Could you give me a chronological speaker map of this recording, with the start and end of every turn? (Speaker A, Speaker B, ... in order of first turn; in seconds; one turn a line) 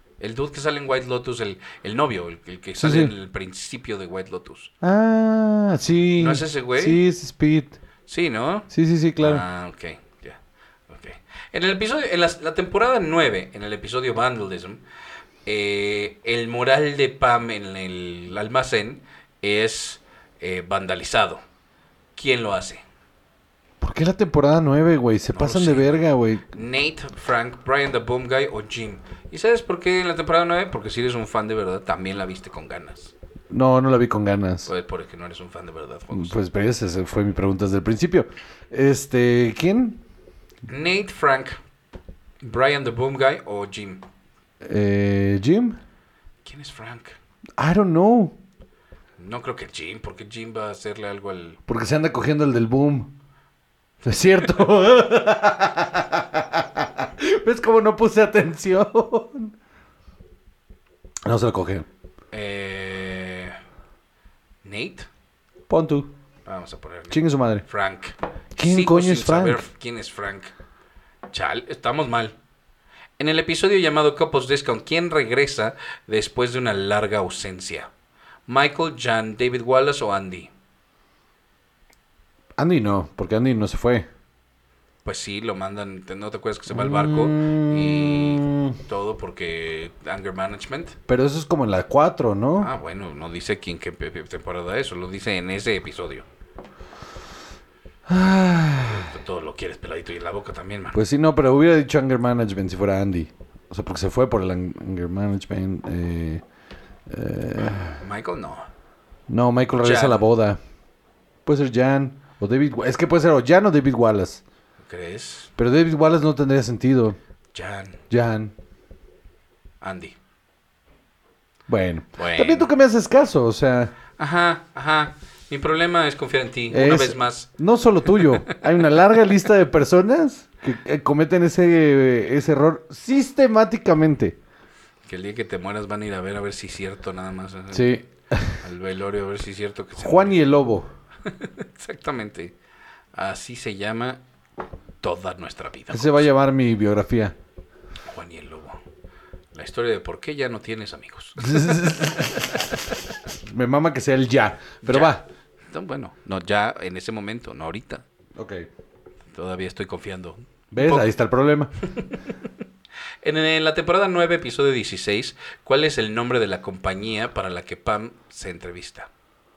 Speaker A: 0.2-4.7
Speaker B: 2.8-3.1
Speaker B: 4.8-7.8
Speaker A: 6.2-7.0
Speaker A: 8.1-14.8
Speaker B: 8.7-9.4
Speaker A: 15.4-21.4
Speaker A: 22.1-22.8
Speaker B: 23.8-26.4
Speaker A: 25.3-33.1
Speaker B: 33.5-34.7
Speaker A: 34.6-36.4
Speaker B: 36.1-40.0
Speaker A: 40.7-41.6
Speaker A: 42.4-44.0
Speaker B: 44.6-45.8
Speaker A: 46.4-47.2
Speaker B: 47.6-48.4
Speaker A: 49.2-51.6
Speaker B: 51.7-53.1
Speaker B: 54.0-59.5
Speaker B: 61.2-61.9
Speaker A: 62.3-63.6
Speaker A: 64.6-65.1
Speaker B: 65.7-66.1
Speaker A: 66.5-70.5
Speaker B: 67.1-67.6
Speaker B: 68.6-69.6
Speaker A: 71.3-72.3
Speaker A: 73.2-77.9
Speaker A: 78.5-80.5
Speaker B: 82.6-84.1
Speaker A: 85.0-91.0
Speaker B: 86.7-88.8
Speaker B: 91.1-92.7
Speaker A: 92.6-96.2
Speaker B: 98.1-99.1
Speaker A: 98.8-101.0
Speaker B: 100.9-106.4
Speaker B: 107.1-108.0
Speaker A: 107.6-108.7
Speaker B: 109.3-110.6
Speaker A: 109.8-110.3
Speaker B: 111.4-114.4
Speaker A: 114.8-115.5
Speaker B: 115.6-117.2
Speaker A: 117.5-118.0
Speaker B: 118.1-118.5
Speaker A: 119.8-120.2
Speaker B: 121.7-123.9
Speaker A: 122.2-122.7
Speaker A: 124.2-127.5
Speaker B: 126.7-134.3
Speaker A: 128.1-128.6
Speaker A: 135.1-138.0
Speaker B: 137.7-138.6
Speaker A: 138.5-140.4
Speaker B: 140.0-140.9
Speaker A: 141.3-142.5
Speaker A: 143.1-144.2
Speaker A: 145.0-146.3
Speaker B: 145.9-147.3
Speaker A: 148.1-148.8
Speaker A: 149.5-152.9
Speaker B: 151.4-155.2
Speaker A: 154.8-155.2
Speaker A: 155.7-158.0
Speaker B: 158.3-158.7
Speaker A: 159.3-161.1
Speaker B: 160.7-161.7
Speaker A: 161.8-162.5
Speaker A: 163.2-169.1